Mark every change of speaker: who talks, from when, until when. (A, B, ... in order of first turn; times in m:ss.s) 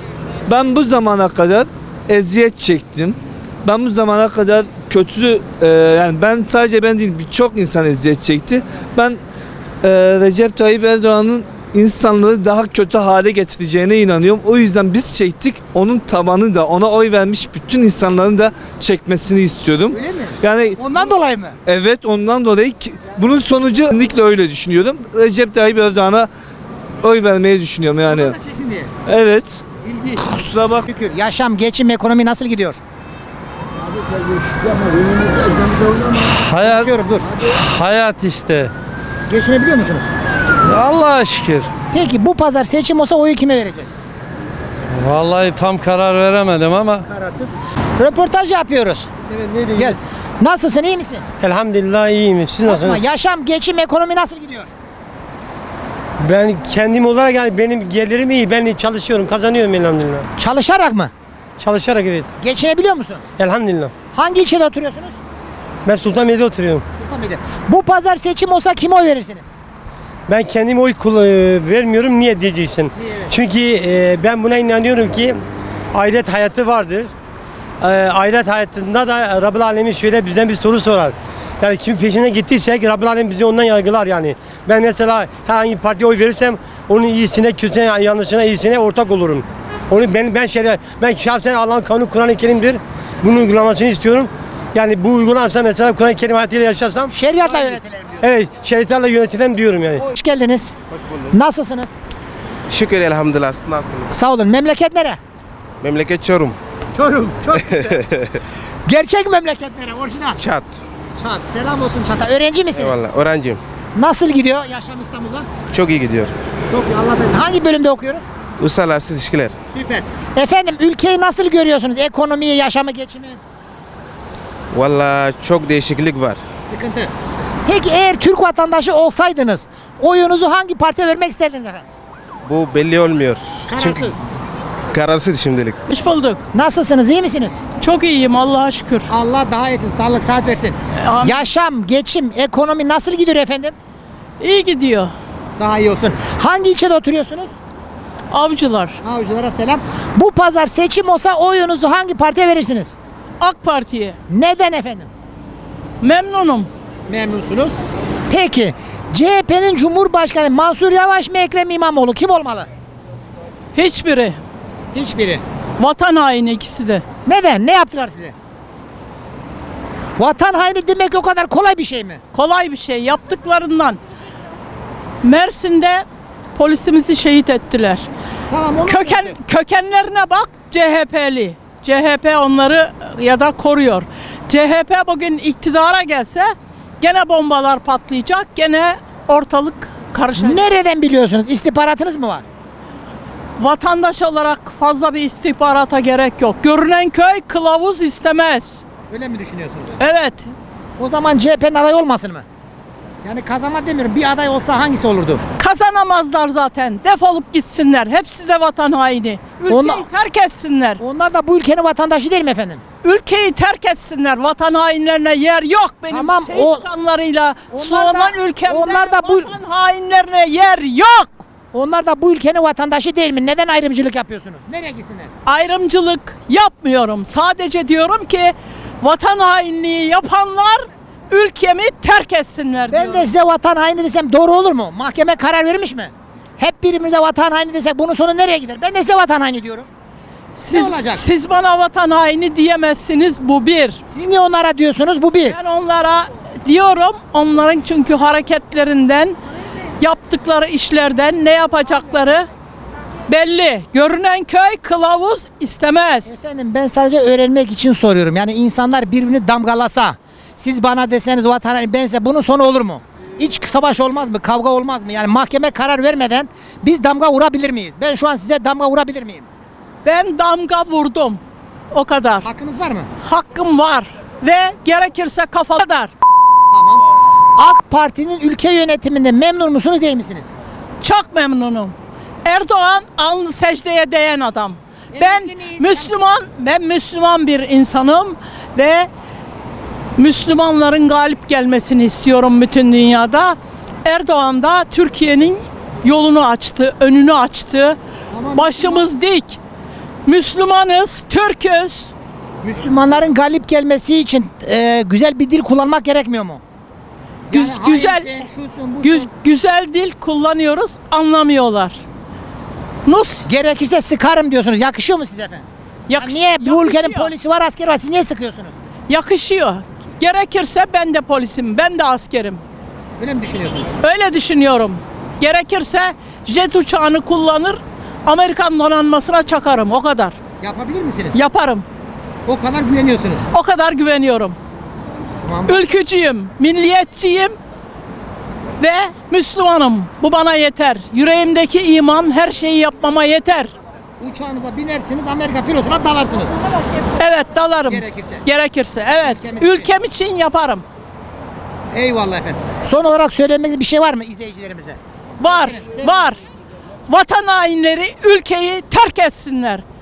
0:00.5-0:09.2 A
0:09.8-0:20.8 A
0:19.9-0:21.6 B
0:21.6-0:26.3 A
0:27.0-0:28.4 A
0:28.1-0:28.9 B
0:29.0-0:29.6 A
0:29.9-0:30.2 B
0:30.2-0:30.8 A
0:30.8-0:32.8 B
0:36.5-0:36.9 C
0:36.6-0:37.2 B
0:37.6-0:38.7 C
0:39.3-0:40.1 B
0:40.6-0:41.7 C
0:41.9-0:44.0 B
0:44.9-0:47.0 C
0:47.0-0:49.1 B
0:49.3-0:50.0 D
0:49.7-0:51.2 B
0:51.4-0:53.0 D
0:52.6-0:54.7 B
0:56.2-1:00.3 D
1:00.4-1:01.1 B
1:01.6-1:02.3 D
1:02.4-1:03.2 B
1:03.4-1:03.9 D
1:04.1-1:05.2 B
1:05.8-1:06.8 D
1:06.9-1:09.5 B
1:10.3-1:15.4 D
1:12.9-1:13.3 B
1:15.9-1:17.1 D
1:17.8-1:37.1 D
1:37.1-1:38.2 B
1:38.2-1:40.0 D
1:40.0-1:40.7 B
1:41.0-1:41.2 E
1:41.3-1:42.0 B
1:42.7-1:44.1 E
1:44.1-1:45.2 B
1:45.8-1:46.6 E
1:46.9-1:47.9 B
1:47.7-1:48.3 E
1:48.9-1:50.4 B
1:50.4-1:50.8 E
1:51.2-1:53.0 B
1:52.7-1:53.6 E
1:54.0-1:55.5 B
1:55.7-1:56.3 E
1:56.7-1:58.2 B
1:58.6-1:59.5 E
1:59.7-2:03.4 B
2:04.7-2:06.4 E
2:06.7-2:07.1 B
2:07.6-2:11.8 B
2:12.4-2:14.1 E
2:13.7-2:14.2 B
2:14.9-2:15.8 E
2:15.9-2:16.4 F
2:16.5-2:17.6 B
2:17.8-2:19.1 F
2:19.1-2:23.7 B
2:21.0-2:21.4 F
2:24.4-2:25.1 F
2:25.6-2:27.6 B
2:28.3-2:29.0 F
2:29.0-2:32.9 B
2:33.4-2:34.2 F
2:34.3-2:35.1 B
2:36.0-2:36.7 F
2:37.1-2:37.7 B
2:38.3-2:42.7 B
2:43.7-2:44.4 F
2:44.9-2:45.4 B
2:45.8-2:47.0 F
2:47.2-2:48.3 B
2:50.2-2:52.2 B
2:52.3-2:54.0 F
2:55.2-2:58.1 F
2:58.5-2:59.4 B
2:58.9-3:10.7 F
3:10.4-3:12.4 B
3:13.6-3:18.8 F
3:19.1-3:20.0 B
3:20.0-3:20.5 F
3:21.0-3:22.4 B
3:23.2-3:25.4 B
3:25.6-3:31.0 F
3:29.7-3:30.0 B
3:31.0-3:32.8 B
3:33.0-3:41.4 F
3:36.1-3:36.8 B
3:37.7-3:39.5 B
3:41.7-3:45.3 B
3:45.4-3:53.3 F
3:52.9-3:59.9 B
4:00.6-4:04.0 F
4:00.7-4:01.2 B
4:04.1-4:05.6 B
4:05.5-4:09.4 F
4:10.0-4:12.5 F
4:13.3-4:16.4 F
4:16.2-4:29.5 B
4:30.0-4:31.4 F
4:31.9-4:32.4 F
4:32.4-4:33.1 B
4:33.2-4:36.1 F
4:36.7-4:37.0 B
4:37.6-4:40.5 B
4:41.0-4:49.1 F
4:45.1-4:46.1 B
4:50.2-4:58.0 F
4:58.3-4:59.0 B
4:58.5-4:59.6 F
5:00.2-5:02.1 F
5:02.6-5:06.6 B
5:07.5-5:09.3 B
5:07.5-5:08.4 F
5:09.0-5:12.0 F
5:13.0-5:13.5 F
5:13.4-5:15.6 B
5:16.1-5:17.3 F
5:16.2-5:18.8 B
5:19.1-5:22.6 F
5:23.2-5:23.9 B
5:24.0-5:30.4 F
5:30.6-5:31.4 B
5:31.3-5:31.8 F
5:32.5-5:33.4 B
5:33.5-5:34.6 F
5:35.4-5:35.8 B
5:35.7-5:37.6 F
5:38.8-5:43.7 F
5:44.2-5:46.6 B
5:47.2-5:50.8 F
5:47.9-5:48.4 B
5:49.2-5:49.9 B
5:51.9-5:56.3 B
5:55.4-5:56.4 F
5:57.1-5:59.8 F